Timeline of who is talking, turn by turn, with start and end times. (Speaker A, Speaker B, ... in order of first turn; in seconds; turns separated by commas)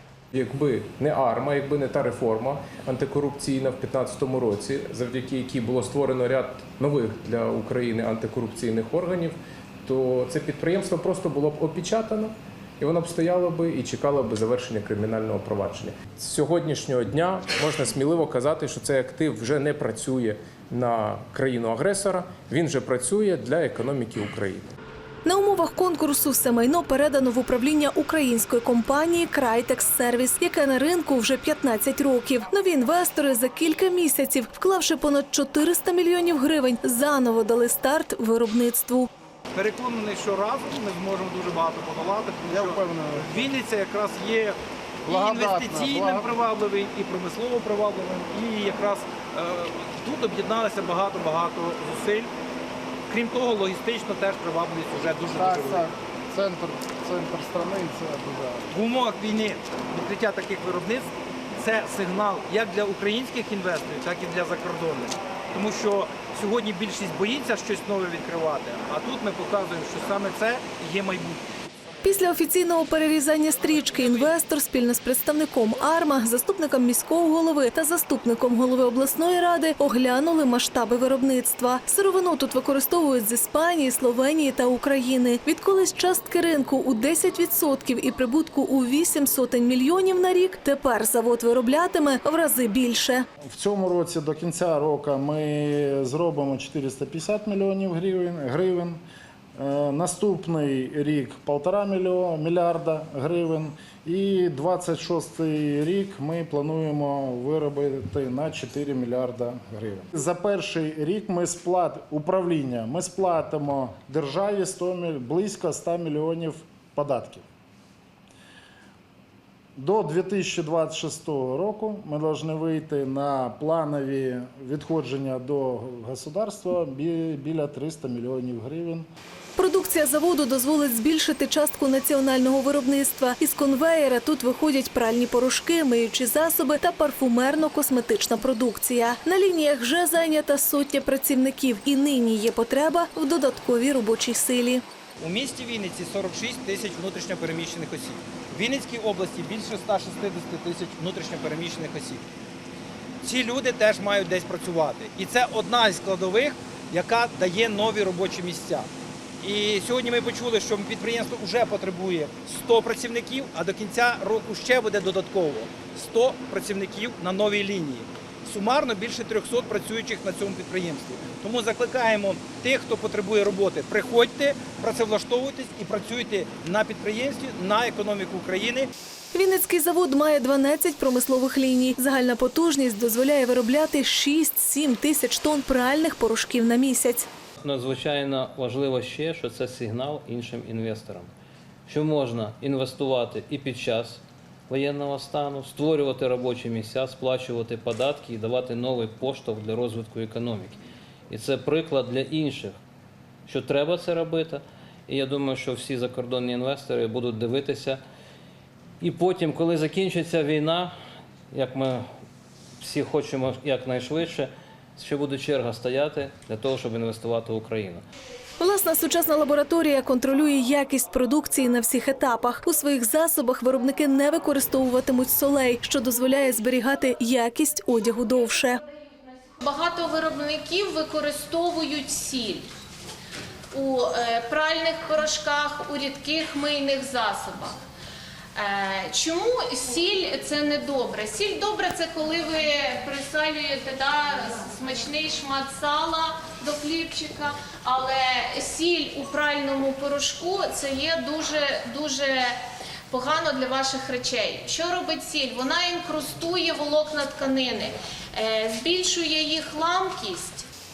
Speaker A: 0.3-24.7, Speaker B: 25.2-39.1, Speaker C: 39.5-52.3, Speaker D: 42.5-43.5, Speaker D: 45.1-46.3, Speaker C: 53.1-55.9, Speaker D: 55.3-58.7, Speaker C: 58.7-71.4, Speaker B: 72.0-93.2, Speaker D: 93.5-99.0, Speaker D: 99.5-117.4, Speaker D: 119.8-129.1, Speaker B: 129.6-144.8, Speaker C: 145.2-152.2, Speaker C: 153.2-158.9, Speaker C: 159.4-178.9, Speaker B: 179.3-187.3, Speaker E: 187.6-191.3, Speaker E: 191.9-200.8, Speaker E: 201.3-202.8, Speaker E: 203.4-208.0, Speaker E: 209.0-210.9, Speaker E: 211.5-212.0, Speaker E: 212.8-218.0, Speaker B: 218.6-228.8, Speaker F: 229.6-232.7, Speaker F: 233.7-237.8, Speaker F: 238.5-260.7